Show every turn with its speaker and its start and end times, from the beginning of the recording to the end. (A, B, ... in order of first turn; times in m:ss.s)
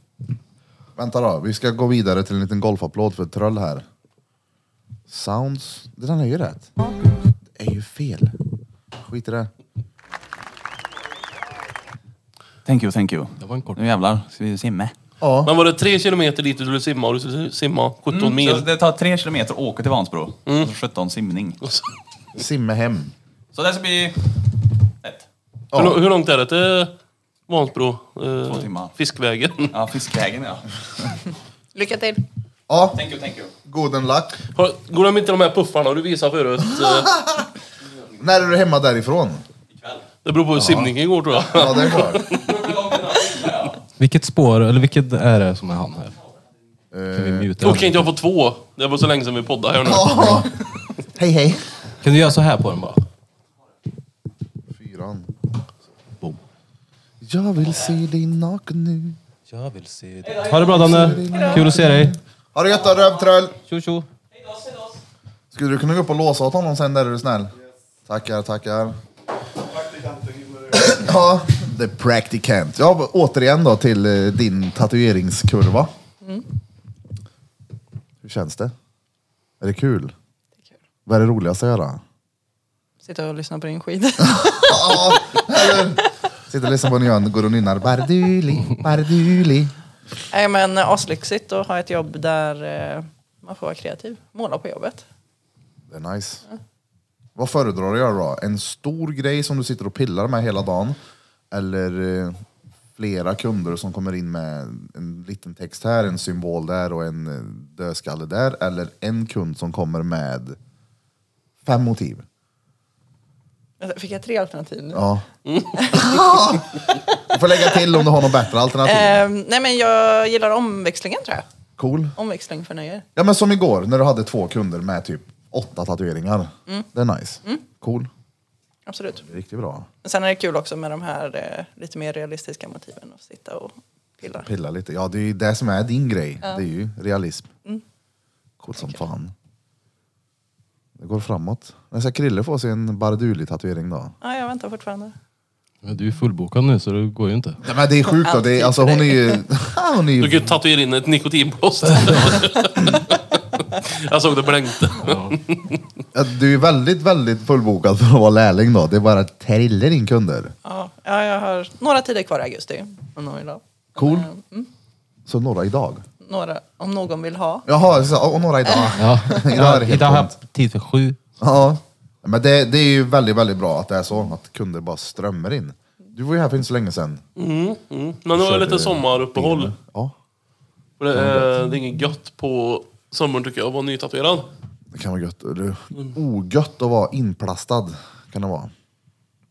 0:01.0-0:03.8 A
0:05.1-0:06.7 A
0:07.5-0:08.4 A
0:09.0-0:09.5 A
0:12.6-0:14.9 B
0:13.4-0:13.8 C
0:15.2-0:15.5 A
0:15.4-0:18.6 D
0:18.1-0:21.6 B
0:20.5-0:20.7 D
0:22.3-0:23.1 A
0:23.5-0:24.4 B
0:25.7-0:26.0 A
0:25.7-0:26.9 D
0:27.5-0:29.7 D
0:28.4-0:28.9 B
0:29.7-0:30.7 B
0:31.7-0:32.2 E
0:32.7-0:33.0 A
0:32.9-0:33.5 B
0:33.6-0:34.4 A
0:34.5-0:37.1 D
0:36.9-0:37.4 A
0:38.2-0:39.4 A
0:40.2-0:42.7 D
0:40.6-0:40.9 A
0:41.5-0:42.2 A
0:42.4-0:43.8 B
0:44.0-0:46.2 C
0:46.9-0:47.6 A
0:47.1-0:48.1 C
0:47.6-0:50.5 D
0:49.8-0:50.5 A
0:51.1-0:51.6 A
0:52.0-0:53.0 C
0:54.7-0:55.3 A
0:57.2-0:59.2 A
0:59.5-1:02.2 C
1:00.6-1:03.6 A
1:03.7-1:04.1 C
1:05.5-1:07.5 A
1:08.1-1:09.0 A
1:10.6-1:15.9 A
1:18.2-1:18.7 A
1:19.6-1:20.1 A
1:21.0-1:22.0 A
1:23.0-1:25.8 E
1:24.2-1:29.7 A
1:30.3-1:35.0 E
1:35.9-1:36.4 A
1:37.4-1:41.0 A
1:41.5-1:42.4 A
1:43.0-1:50.6 A
1:51.6-1:52.2 A
1:53.8-1:55.0 E
1:54.9-1:55.2 A
1:55.5-1:55.7 D
1:55.7-1:57.2 E
1:55.9-1:59.2 A
1:58.8-2:01.4 E
2:01.8-2:02.1 A
2:02.2-2:03.0 E
2:03.2-2:08.1 A
2:08.8-2:09.2 E
2:09.2-2:09.9 A
2:10.0-2:14.5 E
2:14.3-2:17.5 A
2:18.6-2:19.3 A
2:21.0-2:24.1 A
2:24.2-2:25.1 E
2:25.8-2:27.6 C
2:27.6-2:30.5 A
2:28.1-2:29.4 E
2:30.2-2:35.8 D
2:35.0-2:35.3 C
2:36.1-2:40.5 A
2:40.6-2:44.7 E
2:44.0-2:44.3 A
2:45.3-2:46.0 A
2:46.2-2:47.6 E
2:47.7-2:50.4 A
2:49.0-2:51.2 C
2:51.4-2:57.2 A
2:57.4-2:59.7 D
2:58.3-3:00.1 A
3:01.0-3:04.5 D
3:01.1-3:01.5 A
3:04.9-3:08.7 A